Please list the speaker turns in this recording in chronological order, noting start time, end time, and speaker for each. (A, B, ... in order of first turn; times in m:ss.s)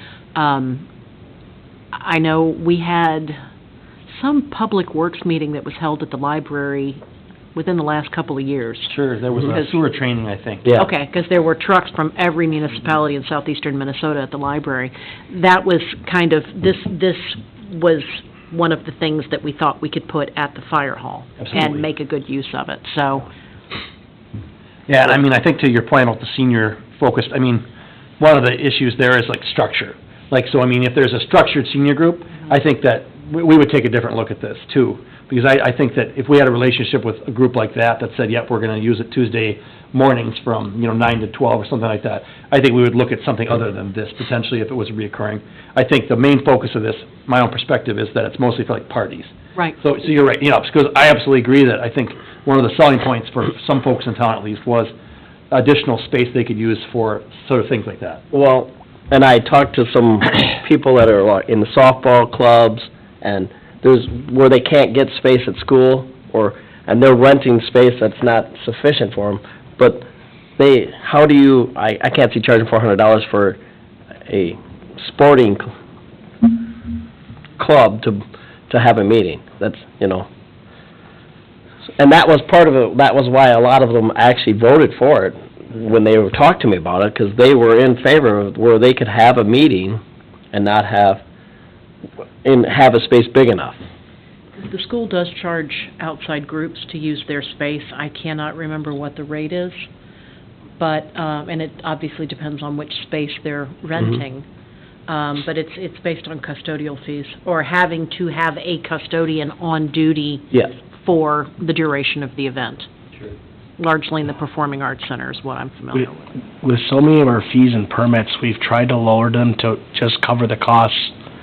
0:00.4-0:00.8 A
0:01.9-0:03.4 A
0:04.1-0:07.0 A
0:07.5-0:09.0 A
0:08.9-0:10.7 B
0:09.5-0:09.8 A
0:10.8-0:23.3 A
0:21.4-0:21.8 B
0:24.9-0:27.6 B
0:28.2-0:54.9 B
0:55.5-0:58.2 B
0:58.3-1:10.1 C
1:10.6-1:13.6 C
1:14.3-1:15.7 C
1:17.6-1:20.3 C
1:22.0-1:30.0 C
1:30.5-1:31.2 C
1:32.4-1:33.8 C
1:34.6-1:39.9 A
1:40.8-1:44.5 A
1:45.1-1:52.9 A
1:53.8-1:56.3 A
1:56.6-2:01.2 D